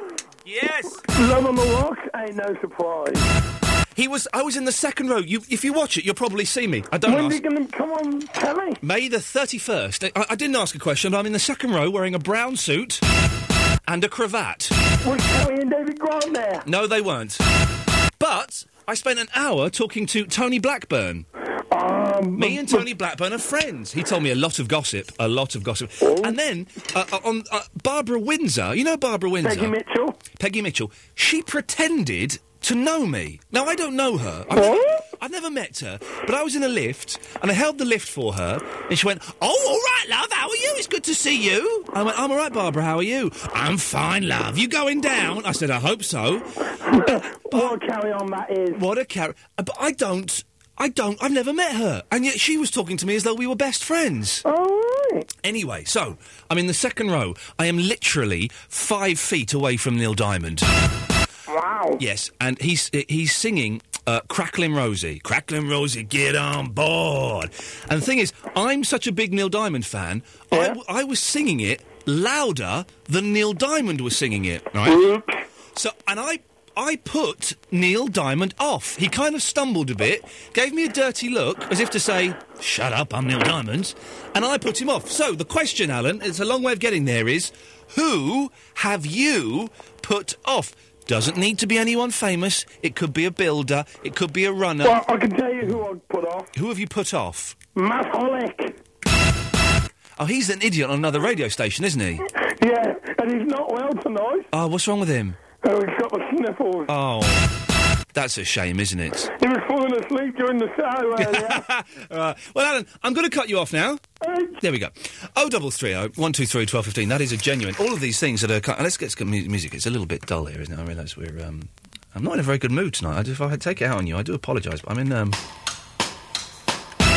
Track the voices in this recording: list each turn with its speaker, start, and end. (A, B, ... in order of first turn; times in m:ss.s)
0:00.4-0:01.0 A
0:01.1-0:03.3 B
0:04.0-0:07.4 A
0:07.0-0:08.8 B
0:08.8-0:13.0 A
0:13.9-0:14.7 A
0:15.0-0:16.6 B
0:16.6-0:17.4 A
0:18.2-0:21.2 A
0:21.7-0:22.8 B
0:22.4-0:29.7 A
0:26.0-0:26.3 B
0:29.4-0:30.2 B
0:30.4-0:46.4 A
0:34.5-0:35.0 B
0:46.8-0:48.8 B
0:47.0-0:47.8 A
0:48.7-0:54.4 A
0:54.4-0:55.3 B
0:55.4-1:00.7 A
1:01.5-1:02.0 B
1:02.0-1:15.0 A
1:10.5-1:10.8 B
1:14.8-1:15.4 B
1:15.7-1:35.0 A
1:34.8-1:36.5 B
1:36.5-1:37.6 A
1:37.8-1:38.8 B
1:40.2-1:42.2 A
1:42.6-1:44.5 B
1:44.5-1:45.4 A
1:45.6-1:46.9 B
1:46.9-1:47.5 A
1:48.1-1:49.3 A
1:49.4-1:51.6 B
1:51.2-1:54.0 A
1:54.2-1:54.6 B
1:54.6-2:05.4 A